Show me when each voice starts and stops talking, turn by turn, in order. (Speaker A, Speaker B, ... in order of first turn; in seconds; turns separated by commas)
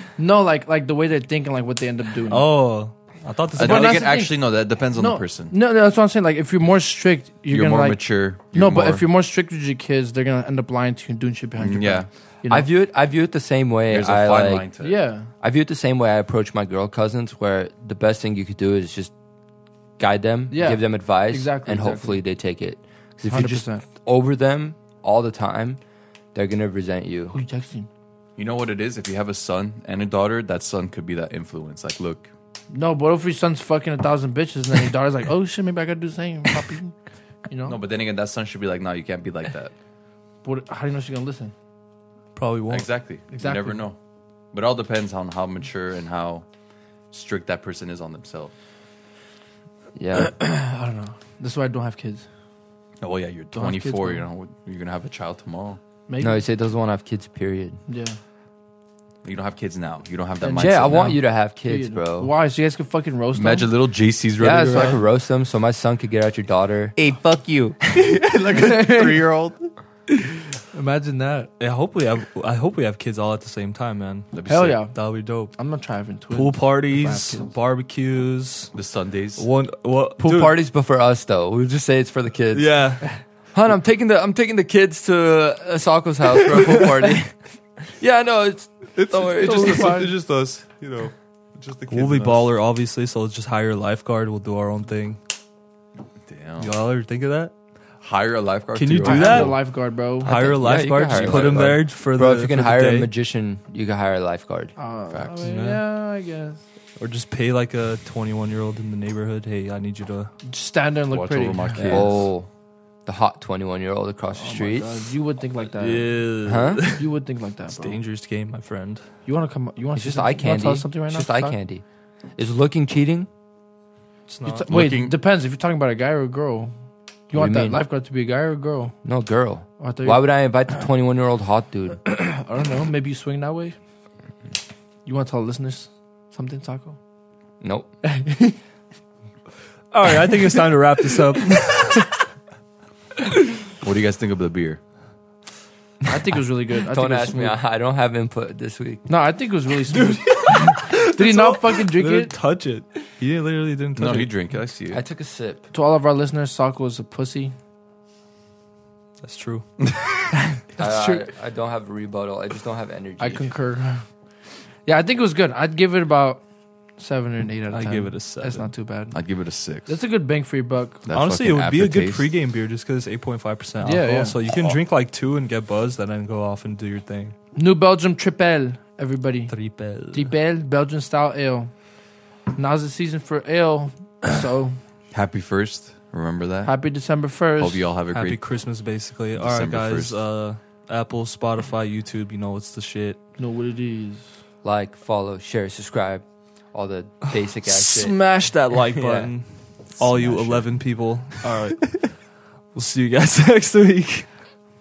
Speaker A: 0.2-2.5, Speaker B: 2.3-4.1, Speaker C: 3.5-5.5, Speaker A: 3.6-4.4, Speaker A: 4.9-12.7, Speaker C: 7.5-9.0, Speaker C: 11.6-12.1, Speaker D: 12.5-14.7, Speaker C: 13.9-15.0, Speaker A: 14.8-15.3, Speaker D: 15.4-19.1, Speaker D: 20.0-25.8, Speaker A: 20.5-22.2, Speaker A: 23.3-23.8, Speaker D: 26.3-27.4, Speaker A: 27.3-27.9, Speaker C: 28.4-32.3, Speaker A: 32.7-36.9, Speaker A: 37.5-37.8, Speaker C: 37.6-39.7, Speaker A: 40.4-41.5, Speaker B: 42.3-42.9, Speaker C: 42.7-44.0, Speaker A: 43.3-43.8, Speaker C: 44.5-46.4, Speaker C: 47.1-48.5, Speaker D: 50.0-50.3, Speaker A: 50.1-52.2, Speaker C: 53.0-55.8, Speaker A: 53.5-54.2, Speaker A: 56.1-56.4, Speaker D: 56.2-57.8, Speaker A: 57.9-58.2, Speaker C: 59.2-61.2, Speaker A: 60.4-63.7, Speaker D: 60.5-62.3, Speaker C: 63.3-65.0, Speaker D: 64.4-67.0, Speaker C: 67.0-69.6, Speaker A: 68.5-69.2, Speaker A: 70.7-71.5, Speaker B: 71.6-75.5, Speaker C: 74.3-74.8, Speaker A: 74.5-74.9, Speaker A: 75.5-77.5, Speaker B: 76.3-78.7, Speaker C: 78.7-79.5, Speaker B: 79.4-80.6, Speaker D: 80.2-82.8, Speaker B: 82.5-83.0, Speaker D: 83.5-87.3, Speaker D: 88.0-90.0, Speaker C: 89.0-92.5, Speaker A: 89.3-90.1, Speaker B: 91.9-95.2, Speaker C: 96.3-96.7, Speaker B: 96.6-97.5, Speaker C: 98.0-99.6, Speaker B: 98.7-99.5, Speaker A: 99.0-100.5, Speaker B: 100.2-103.1, Speaker D: 100.2-104.7, Speaker C: 101.0-101.8, Speaker A: 104.8-106.6, Speaker B: 105.4-105.8, Speaker B: 107.0-110.3, Speaker A: 110.5-112.0, Speaker C: 111.1-112.3, Speaker D: 111.8-112.5, Speaker D: 113.0-115.1, Speaker A: 114.4-116.2, Speaker B: 115.8-117.0, Speaker D: 116.4-116.9, Speaker A: 116.9-118.0, Speaker B: 117.7-119.0, Speaker A: 119.2-121.5, Speaker D: 120.0-121.8, Speaker D: 122.4-123.3, Speaker B: 124.3-124.7, Speaker A: 124.5-126.7, Speaker C: 124.7-125.1, Speaker A: 127.3-128.9, Speaker D: 127.3-127.8, Speaker D: 129.0-132.0, Speaker A: 129.8-130.2, Speaker A: 132.0-133.8, Speaker A: 135.0-137.0, Speaker D: 137.6-137.9, Speaker A: 138.0-138.6, Speaker B: 139.9-142.1, Speaker C: 143.8-144.8, Speaker A: 146.1-147.6, Speaker D: 146.9-149.1, Speaker A: 149.1-152.3, Speaker B: 149.9-154.3, Speaker C: 153.9-155.0, Speaker D: 154.9-155.7, Speaker A: 155.7-157.5, Speaker B: 159.2-159.6, Speaker A: 160.8-161.3, Speaker D: 160.8-163.5, Speaker A: 163.2-164.0, Speaker A: 164.8-166.4, Speaker A: 167.0-169.2, Speaker B: 167.7-168.7, Speaker C: 169.1-170.0, Speaker A: 169.9-171.0, Speaker C: 171.0-172.3, Speaker B: 171.1-177.3, Speaker A: 173.8-174.3, Speaker A: 177.5-179.5, Speaker B: 179.5-180.3, Speaker A: 180.1-181.7, Speaker A: 182.5-184.8, Speaker C: 185.1-186.7, Speaker A: 186.6-187.8, Speaker C: 187.6-188.4, Speaker B: 188.1-193.2, Speaker C: 189.3-190.2, Speaker A: 193.4-194.3, Speaker D: 194.6-198.2, Speaker B: 197.6-204.3, Speaker D: 199.0-199.3, Speaker C: 200.0-200.6